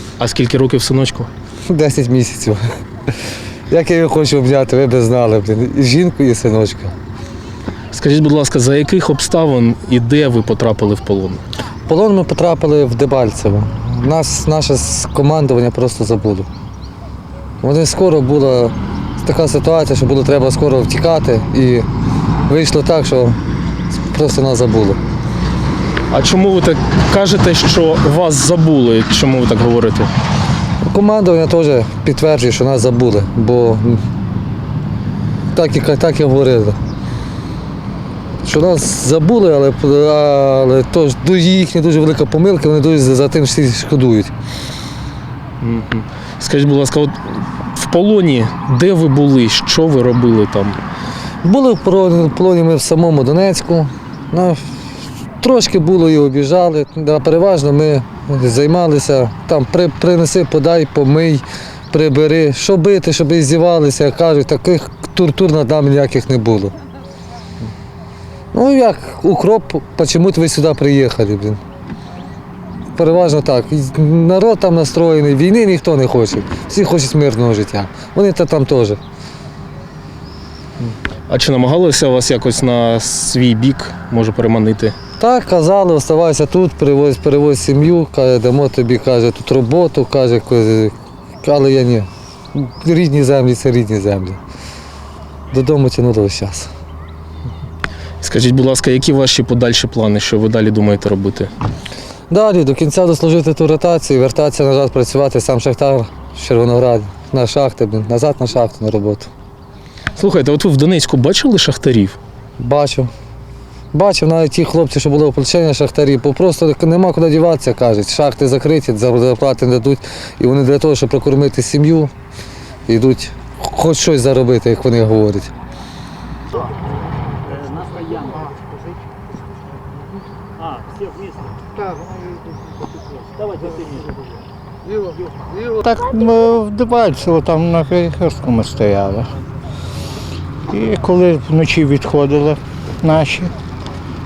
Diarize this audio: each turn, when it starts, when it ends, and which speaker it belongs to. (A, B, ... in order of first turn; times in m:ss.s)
0:00.2-0:01.3 A
0:01.7-0:02.6 B
0:03.7-0:06.9 B
0:07.9-0:11.4 A
0:11.9-0:16.5 B
0:17.6-0:21.9 B
0:22.5-0:23.4 B
0:23.9-0:25.0 B
0:26.1-0:30.1 A
0:30.9-0:34.0 B
0:35.5-0:36.8 B
0:38.4-0:44.3 B
0:45.6-0:50.8 A
0:51.4-0:54.6 B
0:55.4-1:06.7 B
1:08.5-1:11.6 B
1:12.9-1:19.0 B
1:21.3-1:25.0 A
1:25.2-1:34.4 B
1:35.5-1:36.7 B
1:38.2-1:41.5 A
1:42.3-1:49.3 B
1:50.2-1:52.2 A
1:52.6-1:53.1 B
1:53.9-2:02.1 B
2:02.9-2:05.5 B
2:07.4-2:08.6 C
2:10.6-2:11.6 C
2:13.4-2:14.3 C
2:15.7-2:19.3 D
2:20.7-2:23.5 D